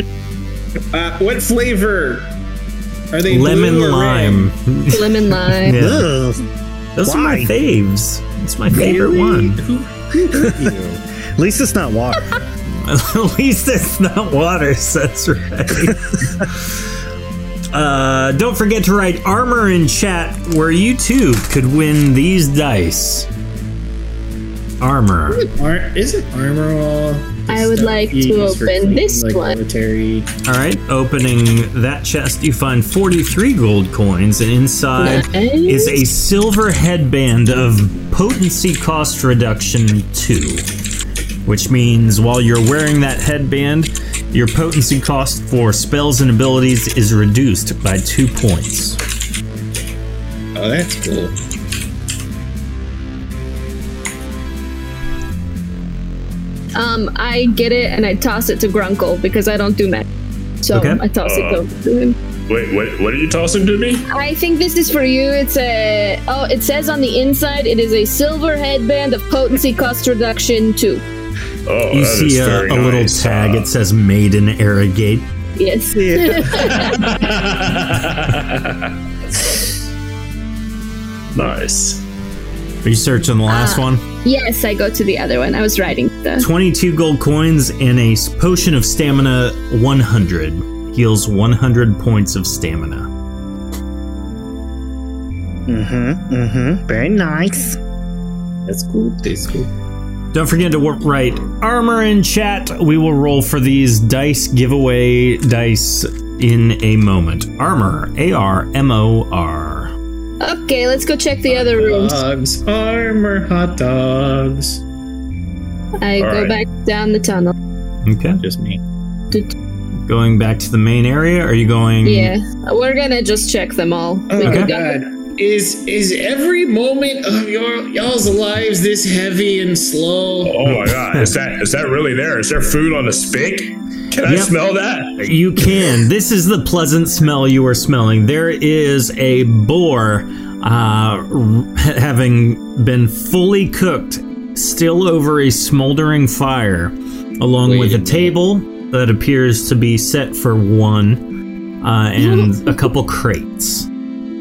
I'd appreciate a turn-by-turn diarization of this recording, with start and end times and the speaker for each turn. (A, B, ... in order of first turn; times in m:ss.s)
0:00.9-0:02.3 A
0:03.1-0:04.5 A
0:03.3-0:06.1 B
0:04.9-0:05.7 C
0:05.7-0:06.4 D
0:07.0-0:09.6 B
0:07.0-0:07.5 D
0:08.7-0:11.0 A
0:10.2-0:10.7 D
0:11.4-0:12.3 D
0:12.7-0:16.8 B
0:17.7-0:23.3 B
0:24.8-0:25.5 B
0:25.4-0:30.3 A
0:27.5-0:29.6 C
0:30.4-0:40.6 B
0:35.0-0:36.0 C
0:41.4-0:49.0 B
0:50.6-0:51.3 A
0:56.7-1:00.1 C
1:00.6-1:02.1 C
1:00.7-1:01.0 B
1:01.2-1:01.6 E
1:02.5-1:04.0 E
1:04.1-1:11.0 C
1:11.6-1:13.6 E
1:11.9-1:15.3 B
1:15.6-1:17.1 C
1:15.9-1:16.7 D
1:16.8-1:18.9 E
1:21.3-1:22.0 E
1:22.8-1:24.0 B
1:23.5-1:26.4 C
1:26.4-1:33.1 B
1:35.7-1:37.8 D
1:38.7-1:39.7 A
1:40.3-1:49.9 B
1:50.4-1:52.2 C
1:51.5-1:54.8 A
1:56.0-1:57.5 C
1:56.2-1:56.5 A
1:58.0-1:58.4 B
1:58.4-1:58.8 A
2:00.0-2:02.3 B
2:02.0-2:05.0 C
2:04.3-2:10.6 A
2:04.4-2:04.7 B
2:10.4-2:15.2 E
2:10.6-2:11.3 B
2:14.2-2:14.5 B
2:15.2-2:31.2 B
2:27.6-2:28.3 A
2:31.8-2:33.9 B
2:32.2-2:32.7 C